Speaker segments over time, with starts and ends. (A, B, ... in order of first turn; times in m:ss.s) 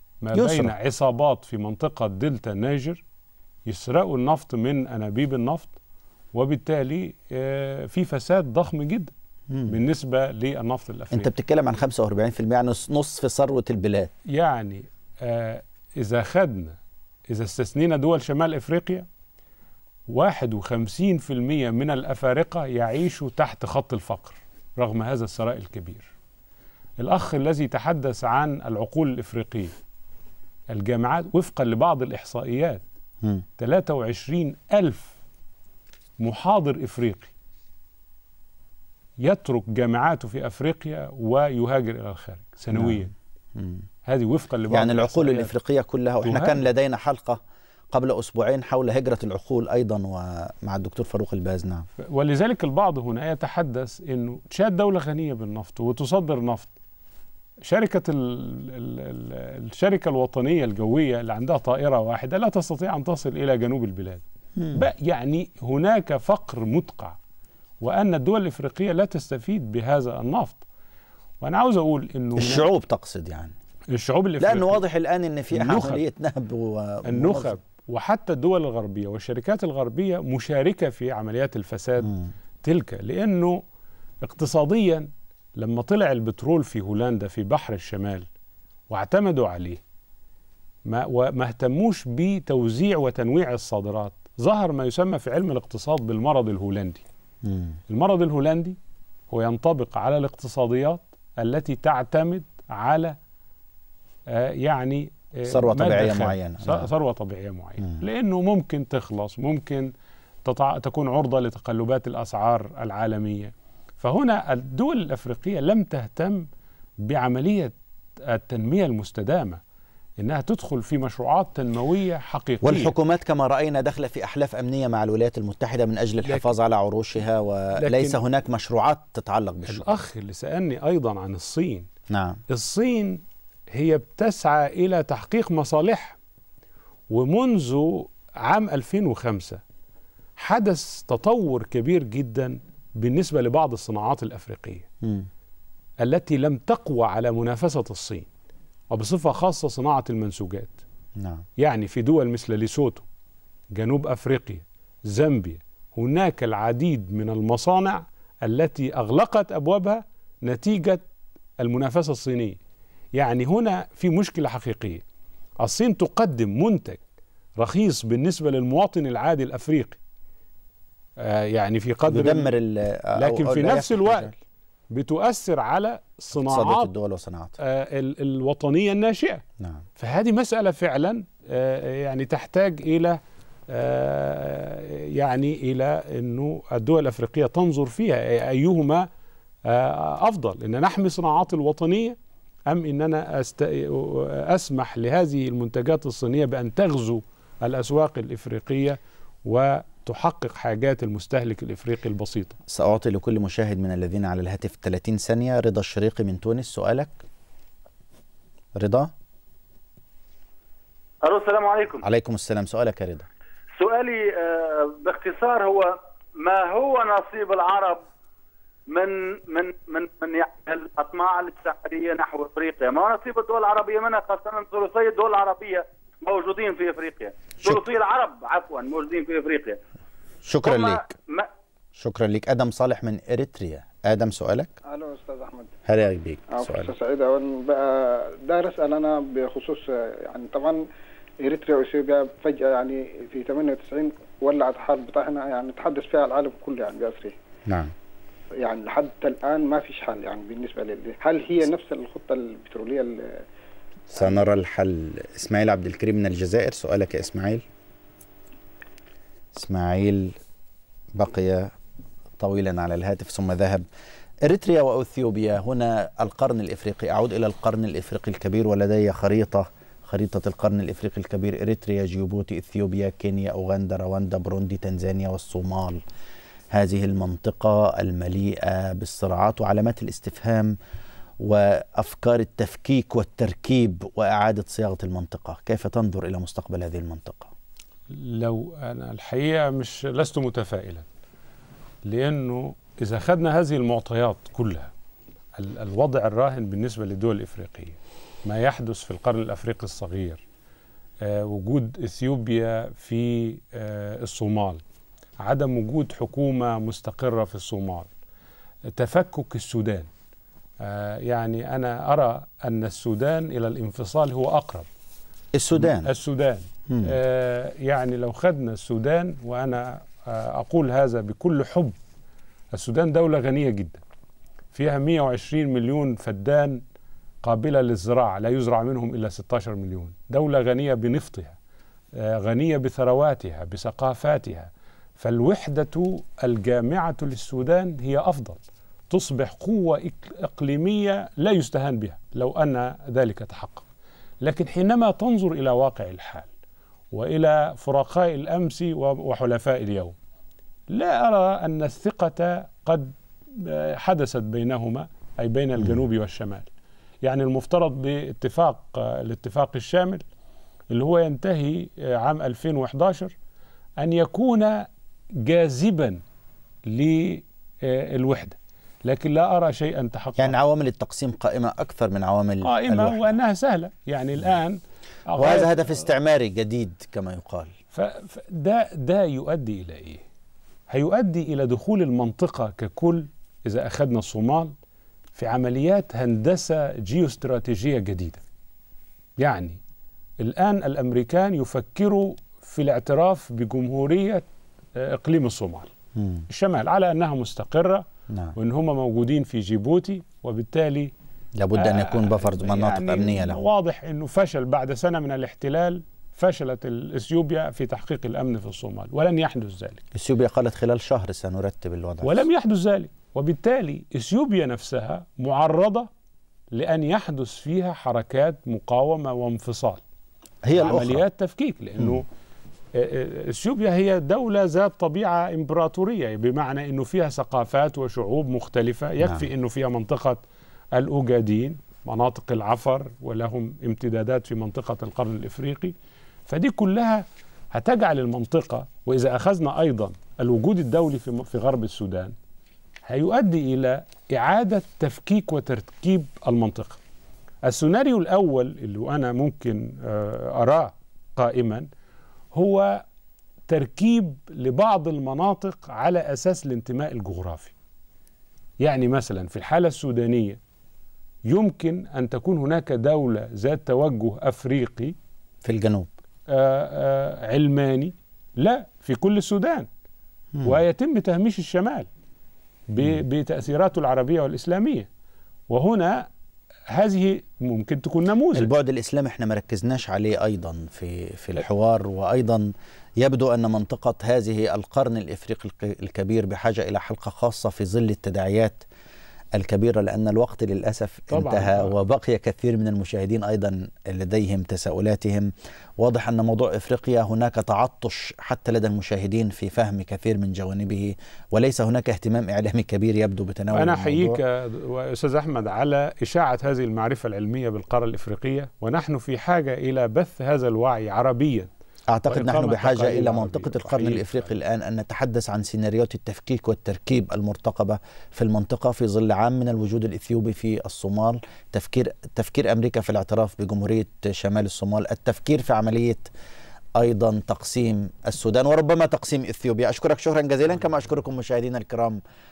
0:00.2-0:03.0 A
0:00.3-0:00.7 B
0:03.7-0:05.8 A
0:06.3-0:09.1 A
0:09.5-0:09.8 B
0:09.7-0:11.3 A
0:11.1-0:14.1 B
0:14.3-0:16.8 A
0:17.3-0:19.1 A
0:20.1-0:26.1 A
0:27.0-0:29.7 A
0:30.7-0:32.8 A
0:33.6-0:35.1 A
0:36.2-0:37.3 A
0:39.2-0:43.1 A
0:42.7-0:43.8 B
0:44.0-0:45.5 A
0:44.7-0:47.4 B
0:46.2-0:46.6 A
0:47.9-0:51.9 B
0:52.0-0:56.7 A
0:57.7-1:04.2 A
1:04.6-1:04.8 B
1:04.7-1:07.2 A
1:07.8-1:10.6 A
1:11.4-1:12.7 A
1:12.4-1:13.5 B
1:13.9-1:14.8 A
1:14.4-1:17.5 B
1:15.5-1:16.0 A
1:17.0-1:23.6 A
1:24.2-1:28.3 A
1:28.9-1:29.8 A
1:30.9-1:37.0 A
1:37.4-1:37.8 B
1:37.9-1:38.8 A
1:39.3-1:43.2 A
1:44.3-1:49.9 A
1:45.5-1:46.9 B
1:50.4-1:56.5 A
1:57.0-1:59.6 A
2:00.2-2:02.9 A
2:02.6-2:10.0 B
2:06.2-2:06.5 A
2:07.8-2:08.2 A
2:09.7-2:11.9 A
2:12.1-2:12.4 B
2:12.5-2:16.2 A
2:17.1-2:19.6 A
2:20.4-2:24.8 A
2:25.0-2:25.3 B
2:26.0-2:28.3 A
2:28.9-2:30.8 A
2:31.2-2:31.4 B
2:31.6-2:33.0 A
2:33.7-2:41.0 A
2:41.6-2:42.6 A
2:43.1-2:45.0 A
2:45.6-2:47.0 A
2:47.6-2:50.0 A
2:51.2-2:52.5 A
2:52.1-2:54.4 B
2:53.2-2:54.3 A
2:54.9-2:56.9 A
2:56.3-2:57.6 B
2:57.6-2:59.4 A
2:59.6-2:59.8 B
3:00.0-3:03.2 A
3:03.7-3:09.1 A
3:09.6-3:12.2 A
3:12.7-3:22.6 A
3:22.7-3:27.2 B
3:28.7-3:29.1 B
3:31.2-3:32.0 C
3:32.0-3:33.3 B
3:33.8-3:38.0 C
3:38.9-3:49.8 C
3:50.4-3:51.0 B
3:50.6-3:51.5 C
3:52.0-3:54.7 B
3:54.9-3:55.7 D
3:55.8-3:56.9 B
3:56.5-4:00.8 D
4:01.4-4:07.3 D
4:07.7-4:07.9 B
4:08.6-4:13.4 D
4:14.1-4:17.6 B
4:19.5-4:20.4 B
4:21.1-4:21.7 B
4:22.4-4:23.8 B
4:24.4-4:36.0 B
4:36.7-4:40.8 B
4:41.4-4:47.5 B
4:48.1-4:51.1 A
4:52.0-4:54.9 A
4:55.6-5:00.4 A
5:01.2-5:04.8 A
5:05.4-5:08.1 A
5:08.9-5:10.1 A
5:10.8-5:14.9 A
5:15.5-5:16.1 B
5:15.7-5:22.0 A
5:16.9-5:17.1 B
5:22.7-5:24.0 A
5:24.7-5:26.8 A
5:27.4-5:31.6 A
5:32.1-5:43.9 A
5:44.4-5:46.5 A
5:47.1-5:50.2 A
5:50.9-5:56.7 A
5:57.2-6:00.2 A
6:00.9-6:03.3 A
6:04.0-6:04.9 A
6:05.4-6:06.2 A
6:06.8-6:10.5 A
6:10.4-6:13.3 B
6:12.6-6:16.0 A
6:15.4-6:17.8 B
6:17.9-6:20.2 A
6:20.9-6:24.7 A
6:25.3-6:28.4 A
6:29.4-6:29.8 A
6:30.4-6:35.9 A
6:36.2-6:36.4 B
6:36.5-6:38.0 A
6:38.3-6:38.5 B
6:38.6-6:41.1 A
6:41.6-6:43.7 B
6:41.7-6:50.0 A
6:50.1-6:52.4 B
6:52.2-6:56.1 A
6:56.7-7:00.0 A
7:00.6-7:01.2 B
7:00.7-7:02.3 A
7:02.9-7:10.4 A
7:09.2-7:09.5 B
7:10.9-7:15.9 A
7:16.5-7:22.3 A
7:23.0-7:27.0 A
7:27.6-7:31.9 A
7:32.5-7:33.0 A
7:33.7-7:37.7 A
7:38.8-7:40.6 A
7:41.5-7:45.1 A
7:45.6-7:46.1 B
7:46.5-7:49.9 A
7:50.5-7:50.8 B
7:50.6-7:52.1 A
7:52.9-7:55.1 A
7:55.7-7:56.3 A
7:56.9-7:58.7 A
7:58.5-8:08.8 B
8:09.5-8:24.4 B
8:11.3-8:11.9 A
8:23.7-8:31.7 A
8:32.1-8:46.3 B
8:32.3-8:34.6 A
8:47.0-8:52.2 B